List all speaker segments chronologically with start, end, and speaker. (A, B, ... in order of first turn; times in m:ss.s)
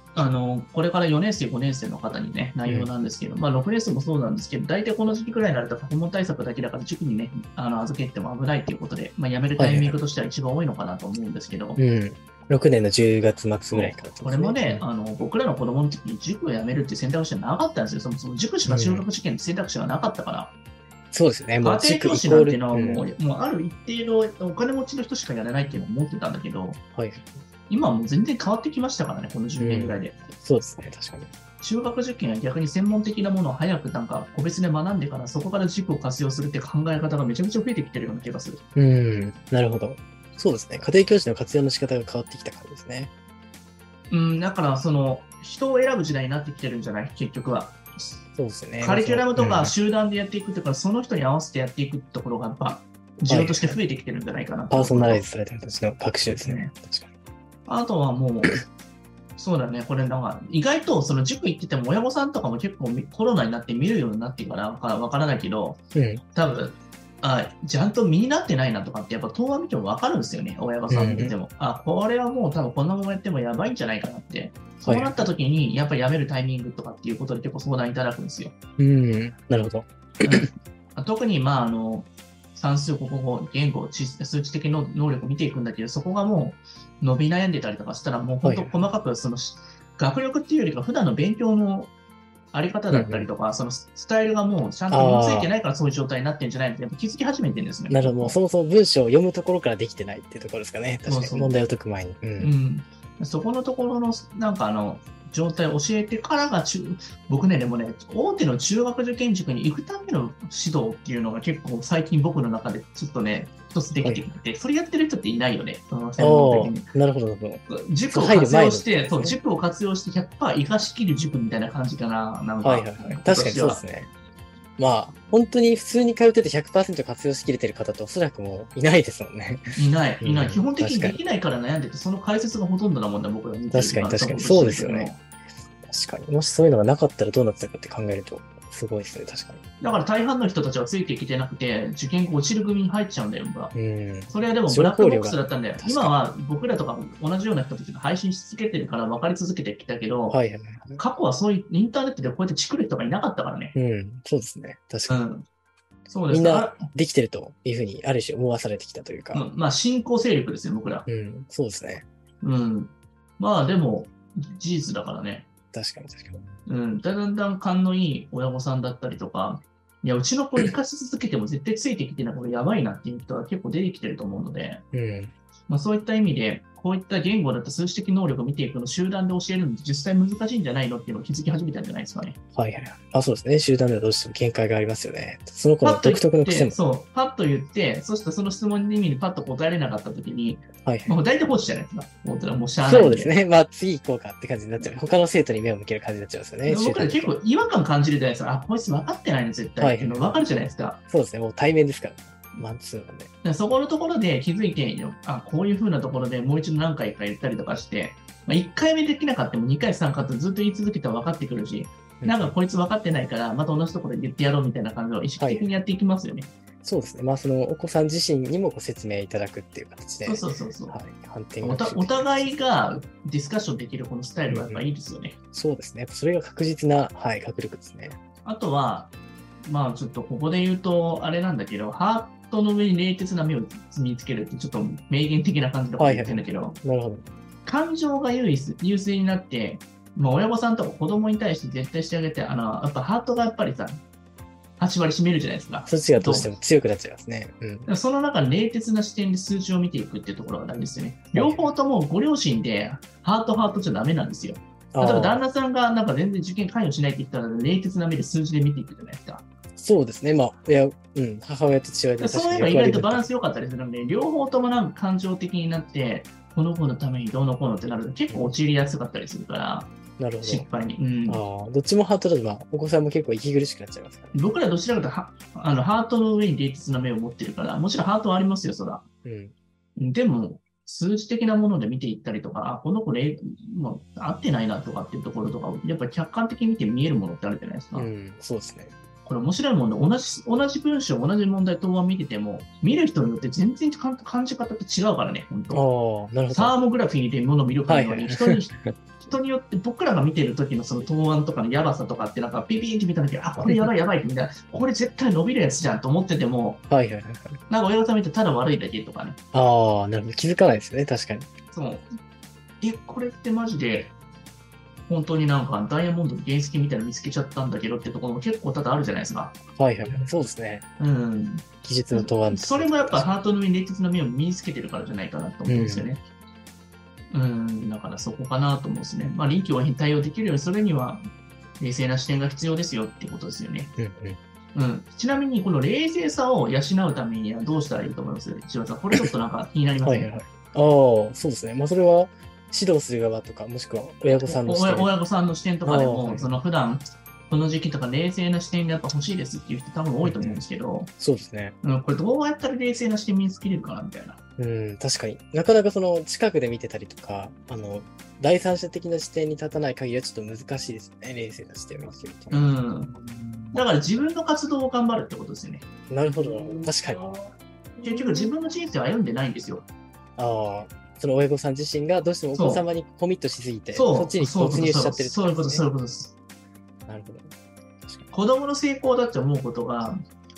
0:00.2-0:11.8 A
0:09.6-0:10.0 B
0:11.8-0:14.9 B
0:13.7-0:20.5 A
0:18.7-0:19.1 B
0:21.1-0:23.1 B
0:21.6-0:26.8 A
0:27.0-0:27.4 B
0:27.7-0:30.2 A
0:29.6-0:31.3 B
0:31.6-0:38.6 A
0:38.8-0:43.1 B
0:44.1-0:48.2 A
0:48.4-0:49.8 B
0:48.8-0:55.3 A
0:53.3-0:53.8 B
0:54.7-0:57.1 B
0:56.2-0:56.7 A
0:57.7-0:58.6 A
0:59.4-1:05.8 A
1:06.0-1:06.2 B
1:06.4-1:18.5 A
1:10.9-1:11.4 B
1:14.8-1:15.3 B
1:18.8-1:20.5 B
1:20.2-1:31.9 A
1:28.4-1:28.8 B
1:32.5-1:38.4 A
1:32.9-1:33.3 B
1:34.9-1:35.5 B
1:37.9-1:42.5 B
1:41.1-1:41.6 A
1:42.4-1:56.9 A
1:56.2-1:59.4 B
1:57.7-2:03.8 A
2:02.6-2:04.1 B
2:04.8-2:11.2 B
2:09.8-2:15.2 A
2:13.7-2:15.1 B
2:15.8-2:19.6 B
2:19.8-2:23.8 A
2:23.7-2:26.2 B
2:24.3-2:30.4 A
2:30.3-2:31.0 B
2:31.0-2:33.8 A
2:33.8-2:35.2 B
2:35.1-2:35.4 A
2:36.1-2:36.9 A
2:36.3-2:39.5 B
2:39.3-2:41.1 A
2:41.1-2:42.0 B
2:42.4-2:45.5 A
2:45.7-2:46.5 B
2:46.7-2:54.8 A
2:54.9-2:55.3 B
2:55.7-3:02.4 A
3:02.6-3:06.8 B
3:05.8-3:13.3 A
3:10.8-3:11.2 B
3:12.8-3:17.4 B
3:16.7-3:21.0 A
3:19.8-3:20.4 B
3:21.1-3:23.3 B
3:23.4-3:36.5 A
3:32.2-3:32.6 B
3:35.4-3:35.7 B
3:36.8-3:42.6 B
3:40.2-3:41.0 A
3:41.6-3:45.4 A
3:44.5-3:44.9 B
3:45.5-3:48.2 B
3:48.4-3:49.1 A
3:49.7-3:56.8 A
3:56.0-3:57.3 B
3:57.6-4:04.0 A
4:04.8-4:06.5 A
4:05.9-4:07.9 B
4:07.9-4:19.4 A
4:11.3-4:11.7 B
4:14.9-4:15.4 B
4:19.8-4:23.3 B
4:22.2-4:29.9 A
4:30.2-4:30.7 B
4:30.4-4:31.4 A
4:31.3-4:34.4 B
4:34.3-4:39.0 A
4:39.2-4:39.5 B
4:40.0-4:48.1 A
4:47.9-4:48.9 B
4:49.2-4:55.8 A
4:55.7-4:56.8 B
4:56.5-5:06.8 A
4:57.9-4:58.9 B
5:03.6-5:03.9 B
5:06.9-5:07.6 B
5:07.7-5:09.4 A
5:09.5-5:11.5 B
5:11.7-5:12.1 A
5:12.8-5:14.1 A
5:15.1-5:19.6 A
5:19.8-5:20.8 B
5:21.0-5:26.2 A
5:21.8-5:23.4 B
5:25.7-5:26.1 B
5:27.3-5:31.2 A
5:31.8-5:33.9 A
5:34.0-5:34.4 B
5:34.8-5:40.3 A
5:40.0-5:45.1 B
5:44.3-5:51.1 A
5:45.8-5:46.5 B
5:50.2-5:50.6 B
5:51.2-5:51.8 B
5:51.8-5:54.4 A
5:54.6-6:02.8 B
6:02.5-6:03.1 A
6:03.7-6:05.8 A
6:06.1-6:07.4 B
6:08.0-6:09.9 A
6:10.4-6:15.9 B
6:12.5-6:12.9 A
6:13.9-6:16.4 A
6:17.1-6:17.5 B
6:18.0-6:18.3 B
6:18.3-6:20.2 A